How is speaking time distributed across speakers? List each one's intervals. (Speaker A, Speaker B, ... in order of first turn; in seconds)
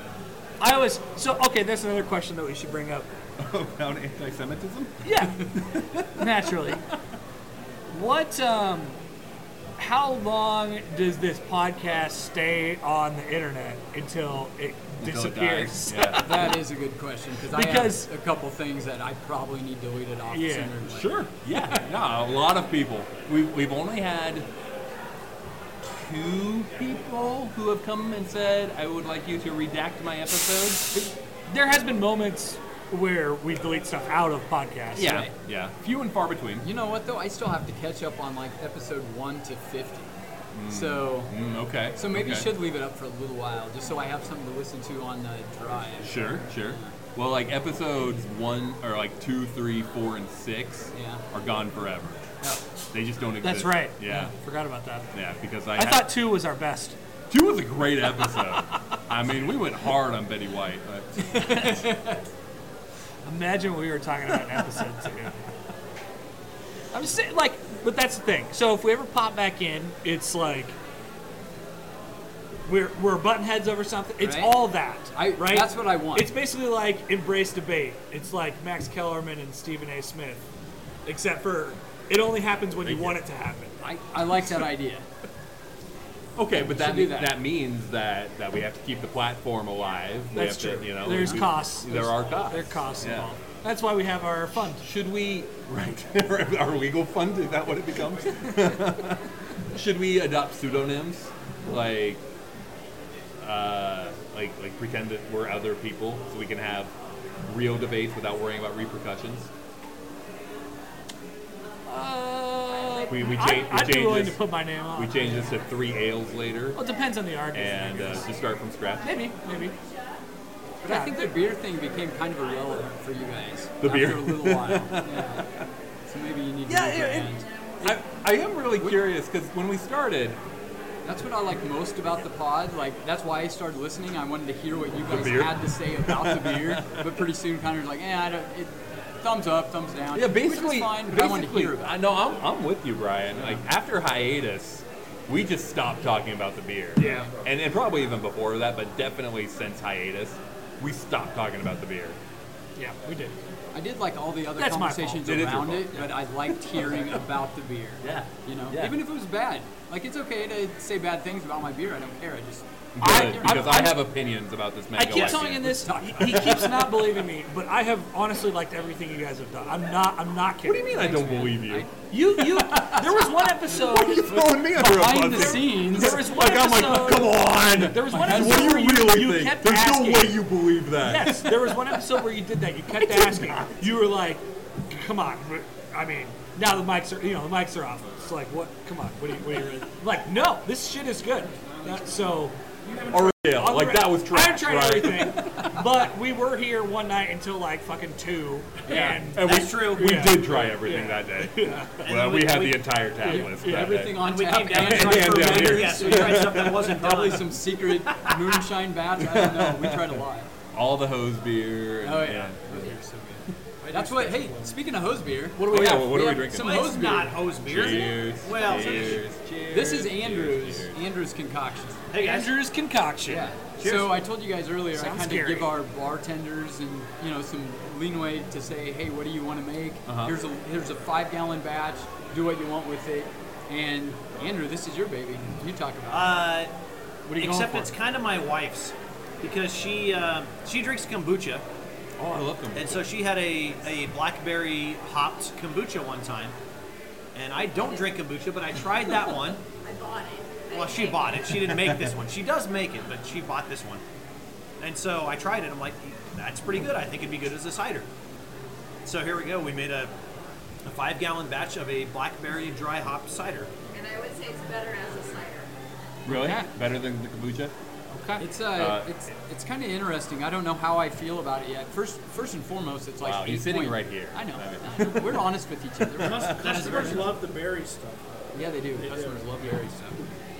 Speaker A: 0.6-3.1, 5.0-5.4, 6.2-6.8, 7.9-9.0, 9.8-16.2, 17.5-18.1, 20.3-20.7, 30.9-35.2, 53.4-55.1, 55.7-57.0, 58.3-58.8, 61.4-61.8, 63.2-65.3, 66.9-70.8, 72.7-80.4, 81.0-83.7, 90.3-94.8, 111.9-115.4, 116.7-118.3, 119.0-119.7, 120.8-121.3, 147.0-147.3, 152.8-153.4, 154.6-155.2, 163.0-164.0, 164.9-171.5, 172.1-180.4, 181.0-201.9, 203.2-204.1, 214.0-214.3, 215.6-216.1, 222.2-223.5, 224.9-225.7, 237.3-237.9, 266.3-266.7, 268.1-268.4
Speaker B: 3.4-6.4, 15.0-16.5, 20.8-24.5, 25.8-30.9, 34.9-36.7, 40.5-42.5, 46.0-52.2, 52.9-54.3, 55.1-56.1, 57.3-61.8, 82.8-83.2, 86.3-93.3, 94.8-102.2, 103.4-106.9, 107.4-109.5, 113.1-116.8, 117.5-119.2, 123.8-125.7, 126.7-130.4, 135.0-137.1, 140.1-152.2, 155.2-157.2, 158.0-159.0, 162.9-166.9, 170.6-182.0, 182.9-183.7, 193.1-195.5, 198.9-206.9, 209.2-210.2, 210.7-213.0, 215.6-217.0, 217.6-221.0, 230.1-230.3, 242.2-243.1, 266.2-267.7, 268.7-269.1, 273.2-275.5, 276.1-277.1
Speaker C: 16.2-21.8, 35.0-35.3, 36.6-40.1, 40.7-41.3, 41.9-46.9, 50.9-51.2, 61.9-62.2, 74.2-76.3, 83.8-85.0, 86.6-87.4, 120.8-125.5, 126.1-127.5, 128.8-129.1, 131.0-142.0, 147.0-147.2, 153.7-163.8, 165.6-166.7, 171.1-171.9, 174.7-176.2, 203.2-210.5, 212.0-217.9, 218.6-222.0, 223.3-236.4, 268.4-277.2, 278.5-280.2
Speaker D: 165.1-165.5, 199.4-200.3, 202.0-203.0, 204.1-207.6, 216.5-219.2, 222.1-222.6, 223.8-224.1, 236.1-236.7, 237.4-241.6, 242.7-246.6, 247.3-249.6, 250.7-254.0, 254.8-258.1, 259.0-260.1, 260.9-263.7
Speaker E: 192.8-193.1, 214.0-214.8, 276.2-278.3, 278.9-279.8
Speaker F: 247.8-248.2, 249.8-251.6, 263.9-265.7